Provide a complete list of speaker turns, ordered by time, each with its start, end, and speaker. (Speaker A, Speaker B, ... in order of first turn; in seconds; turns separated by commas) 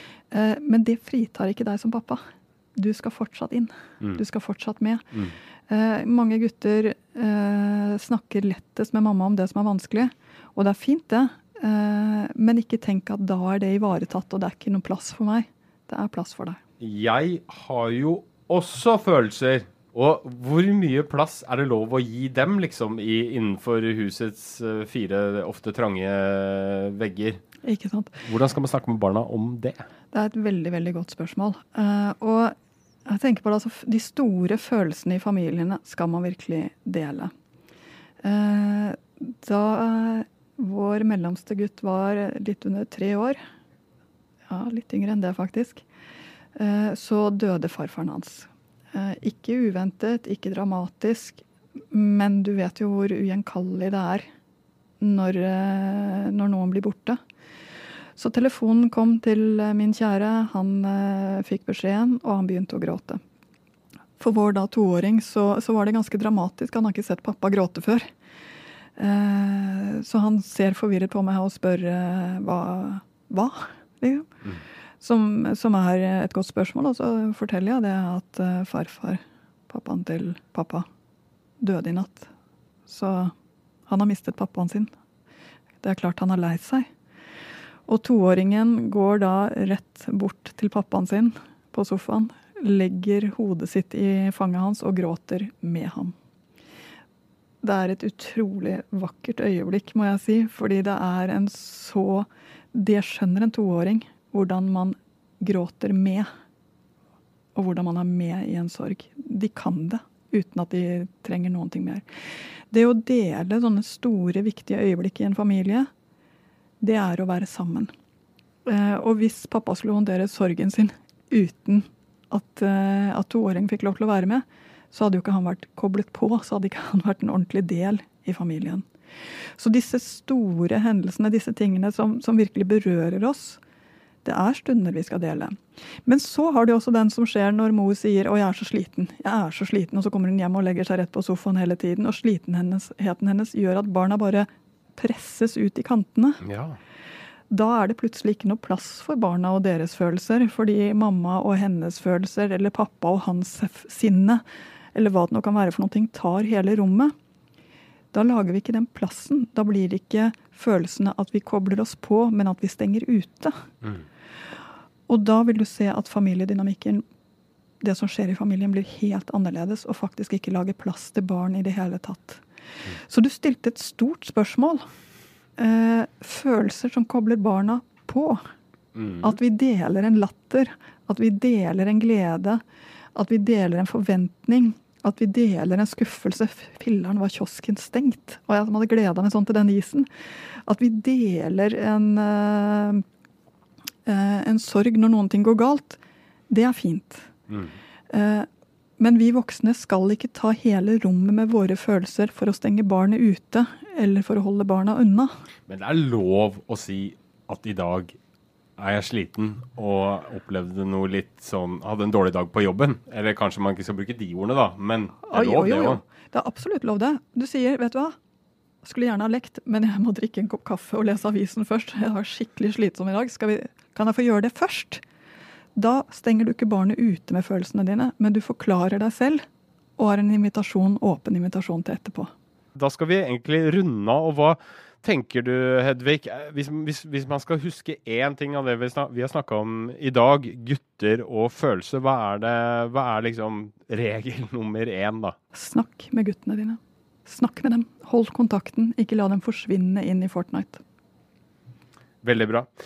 Speaker A: 0.3-2.2, Speaker A: 2.8-5.0, Speaker A: 5.7-16.6, Speaker B: 16.8-27.4, Speaker A: 27.6-28.2, Speaker B: 28.2-29.9, Speaker A: 30.1-32.5, Speaker A: 33.1-37.3, Speaker A: 38.2-43.4, Speaker A: 44.5-45.8, Speaker A: 46.5-54.3, Speaker A: 55.0-57.2, Speaker A: 58.2-63.2, Speaker A: 64.2-68.1, Speaker A: 69.0-74.3, Speaker A: 75.0-80.9, Speaker A: 81.6-82.3, Speaker A: 82.9-83.3, Speaker A: 83.9-84.9, Speaker A: 85.8-86.9, Speaker A: 87.9-96.1, Speaker A: 97.6-106.3, Speaker A: 107.5-112.0, Speaker A: 112.7-115.9, Speaker A: 116.8-117.9, Speaker A: 118.7-128.8, Speaker A: 129.6-133.6, Speaker A: 134.2-146.4, Speaker B: 146.4-146.8, Speaker A: 147.5-154.4, Speaker A: 154.9-157.1, Speaker A: 158.1-163.7, Speaker A: 165.1-167.0, Speaker A: 167.8-172.4, Speaker A: 173.0-174.9, Speaker A: 175.6-178.4, Speaker B: 178.9-179.3, Speaker A: 179.2-182.6, Speaker A: 183.1-193.0, Speaker A: 194.1-197.3, Speaker B: 197.5-197.8, Speaker A: 198.1-198.5, Speaker A: 199.0-205.3, Speaker B: 205.7-208.2, Speaker B: 208.8-216.0, Speaker A: 215.3-218.2, Speaker A: 218.8-225.0, Speaker A: 225.8-229.4, Speaker A: 230.0-232.3, Speaker B: 232.7-245.3, Speaker A: 245.5-250.8, Speaker B: 252.2-252.7